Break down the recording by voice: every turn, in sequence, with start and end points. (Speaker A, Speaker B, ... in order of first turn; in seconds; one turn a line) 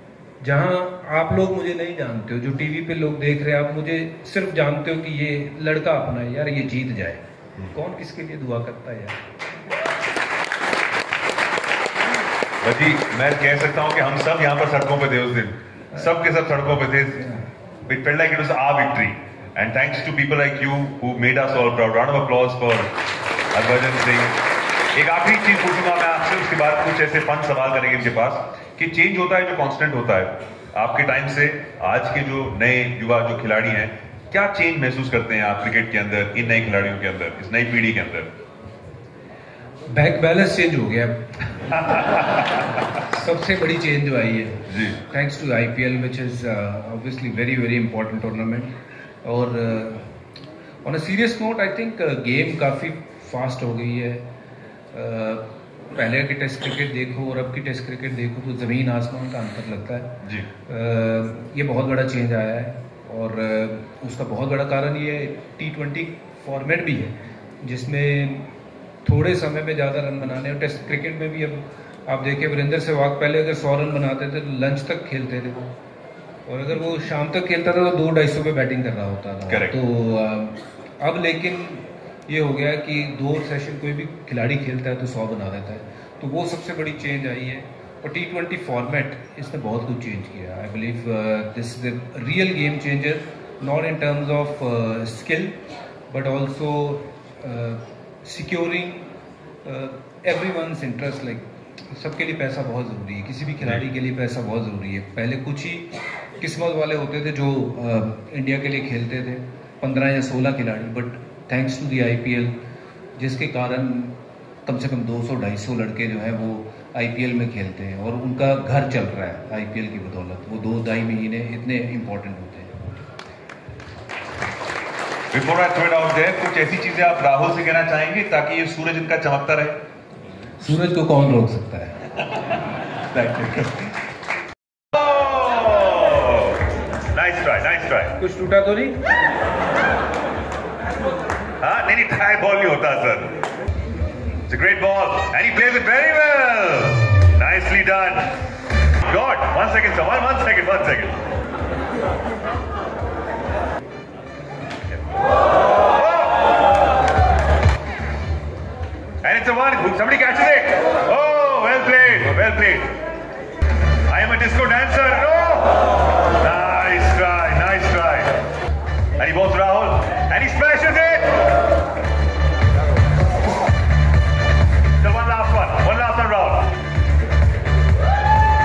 Speaker A: 0.4-9.2
Speaker B: 12.6-17.3
Speaker B: 17.8-22.9
Speaker B: 23.5-24.4
Speaker B: 24.9-38.3
Speaker A: 39.9-41.9
Speaker B: 41.9-42.6
Speaker A: 42.9-50.2
Speaker B: 44.7-45.0
Speaker A: 50.8-54.3
Speaker A: 54.9-68.5
Speaker B: 60.2-60.5
Speaker A: 69.0-75.7
Speaker A: 76.5-95.6
Speaker B: 79.5-79.8
Speaker A: 96.1-99.0
Speaker A: 99.6-112.5
Speaker A: 113.2-122.7
Speaker B: 125.3-129.8
Speaker A: 130.6-132.1
Speaker B: 133.2-133.6
Speaker B: 134.9-136.6
Speaker B: 137.1-138.2
Speaker A: 138.2-139.0
Speaker B: 141.6-143.4
Speaker B: 144.5-148.4
Speaker B: 149.0-151.2
Speaker B: 155.5-156.6
Speaker B: 159.2-163.0
Speaker B: 164.1-168.4
Speaker B: 169.2-171.4
Speaker B: 175.0-176.7